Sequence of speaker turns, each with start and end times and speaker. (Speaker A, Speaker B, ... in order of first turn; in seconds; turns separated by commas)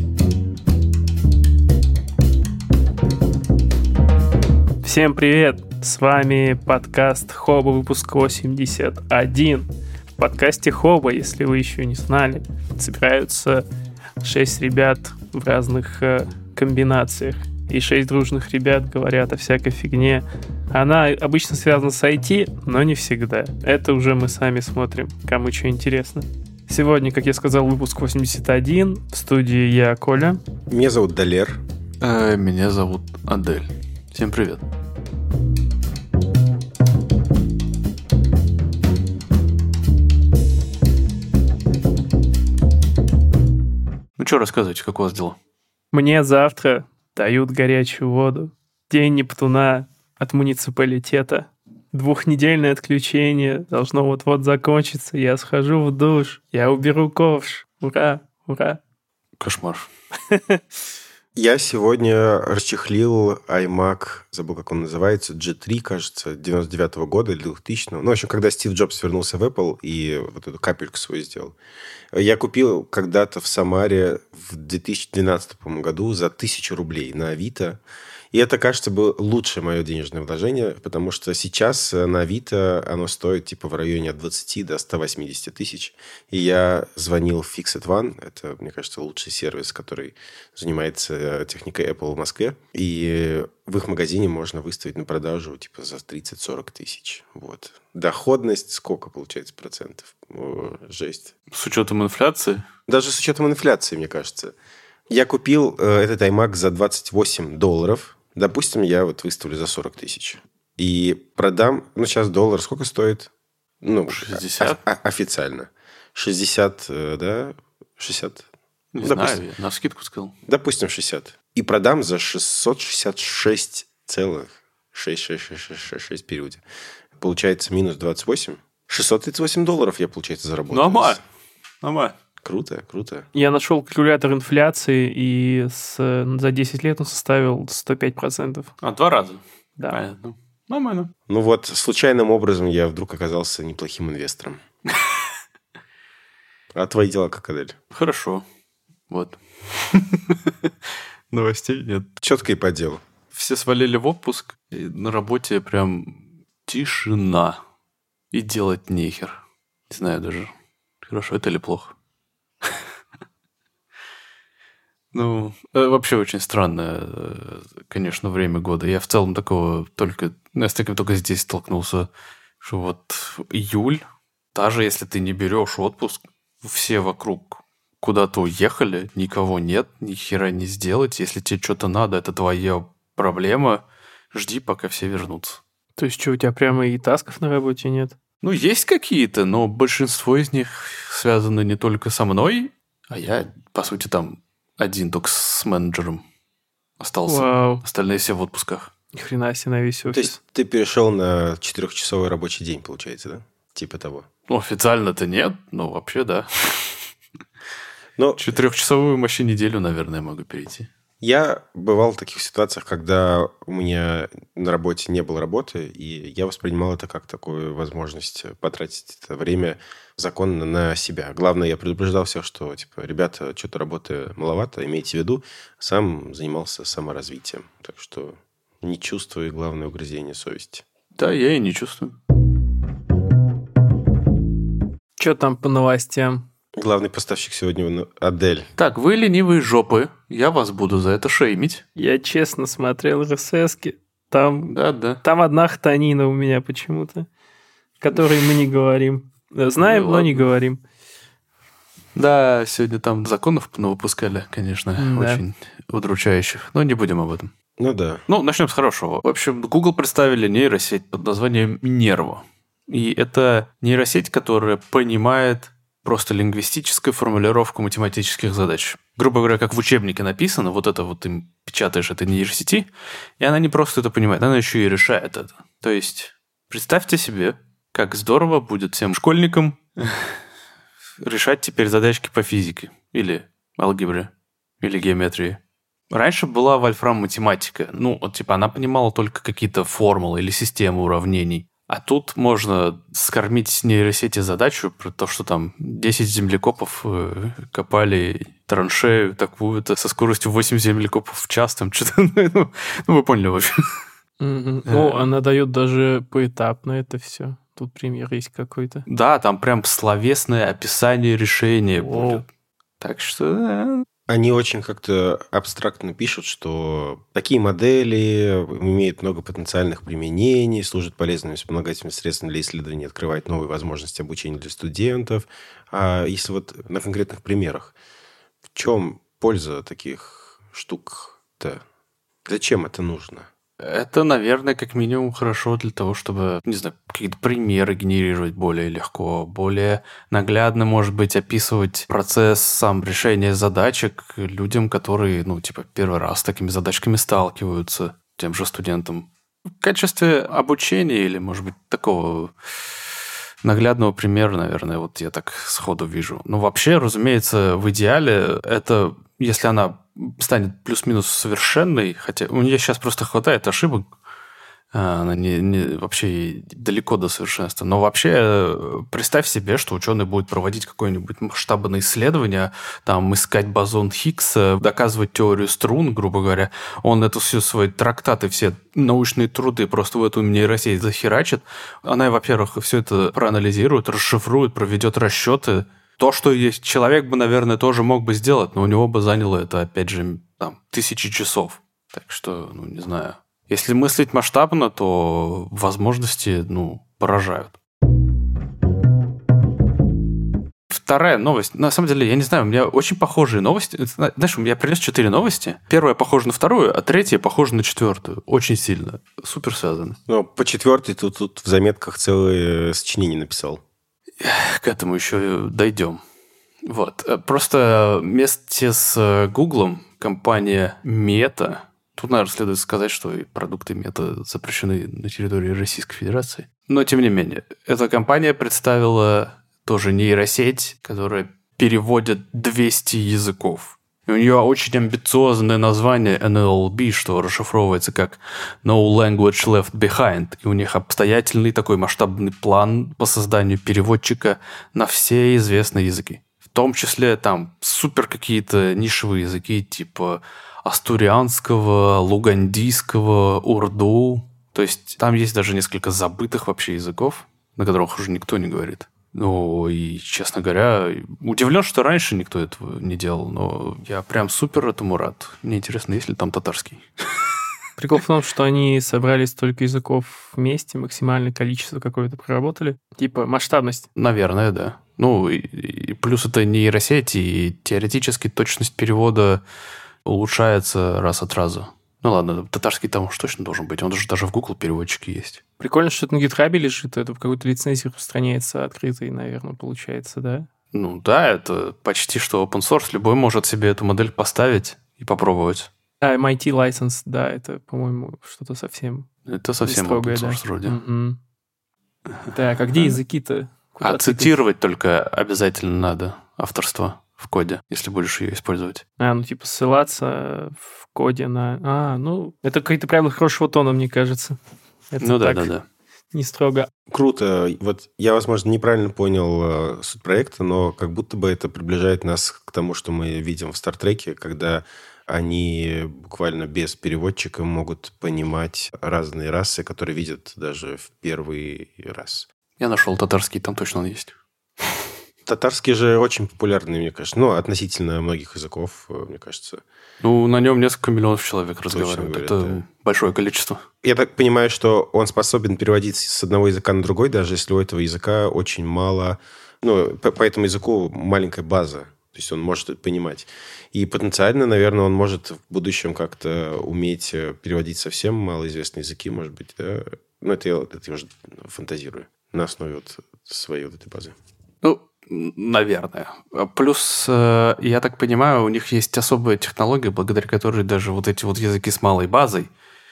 Speaker A: 4.8-13.6, Speaker A: 14.2-30.4, Speaker B: 30.7-31.6, Speaker C: 32.0-34.6, Speaker C: 44.2-45.4, Speaker A: 45.9-58.8, Speaker C: 59.4-59.9, Speaker A: 60.3-60.6, Speaker B: 61.4-71.5, Speaker B: 72.1-77.8, Speaker B: 78.3-101.3, Speaker C: 101.5-102.7, Speaker B: 102.9-104.5, Speaker B: 105.1-113.3, Speaker B: 113.8-118.5, Speaker C: 114.1-114.8, Speaker C: 118.9-120.3, Speaker B: 119.0-119.4, Speaker B: 120.5-126.6, Speaker B: 127.2-131.2, Speaker C: 130.7-131.2, Speaker C: 131.8-132.2, Speaker B: 132.4-133.3, Speaker A: 133.3-138.7, Speaker C: 138.8-141.1, Speaker B: 141.3-144.6, Speaker B: 146.7-147.8, Speaker C: 147.9-148.4, Speaker C: 149.1-150.7, Speaker C: 151.3-152.1, Speaker B: 152.2-153.0, Speaker C: 153.3-157.6, Speaker C: 158.3-159.4, Speaker C: 159.9-161.9, Speaker C: 165.1-172.1, Speaker C: 172.6-185.6, Speaker A: 186.0-188.2, Speaker C: 188.4-196.2, Speaker C: 197.0-198.9, Speaker A: 197.3-197.8, Speaker A: 199.1-200.3, Speaker B: 200.1-204.3, Speaker C: 204.5-206.9, Speaker B: 208.2-208.6, Speaker C: 208.4-210.9, Speaker B: 211.2-230.8, Speaker C: 231.2-232.2, Speaker A: 235.2-236.5, Speaker B: 236.8-238.7, Speaker C: 238.8-241.8, Speaker A: 242.0-247.3, Speaker C: 244.7-245.2, Speaker A: 248.0-250.8, Speaker C: 249.8-250.4, Speaker C: 252.2-257.5, Speaker A: 255.0-255.4, Speaker B: 257.8-258.2, Speaker C: 258.3-272.9, Speaker C: 273.4-280.4, Speaker C: 281.2-285.6, Speaker C: 286.1-304.0, Speaker A: 304.4-309.1, Speaker C: 304.9-305.3, Speaker C: 309.1-312.4, Speaker A: 312.0-312.4, Speaker C: 313.0-314.1, Speaker B: 314.3-327.9, Speaker B: 328.7-331.8, Speaker B: 332.5-333.5, Speaker C: 333.8-349.3, Speaker C: 349.8-352.5, Speaker C: 353.6-364.1, Speaker C: 364.9-397.8, Speaker C: 400.9-410.2, Speaker B: 410.3-413.8, Speaker C: 414.4-416.2, Speaker C: 416.9-467.5, Speaker A: 468.0-474.1, Speaker C: 474.2-479.6, Speaker C: 480.2-485.6, Speaker A: 485.8-490.7, Speaker C: 490.9-495.9, Speaker A: 496.2-499.3, Speaker C: 499.5-501.0, Speaker A: 499.8-501.4, Speaker C: 502.4-503.1, Speaker A: 502.5-504.5, Speaker C: 504.0-509.0, Speaker A: 509.2-514.6, Speaker A: 515.1-515.7, Speaker C: 515.2-515.8, Speaker A: 516.3-516.9, Speaker B: 517.1-532.5, Speaker C: 532.8-534.4, Speaker B: 535.5-539.8, Speaker C: 540.2-543.8, Speaker B: 541.9-542.8, Speaker B: 544.0-564.4, Speaker C: 564.8-572.7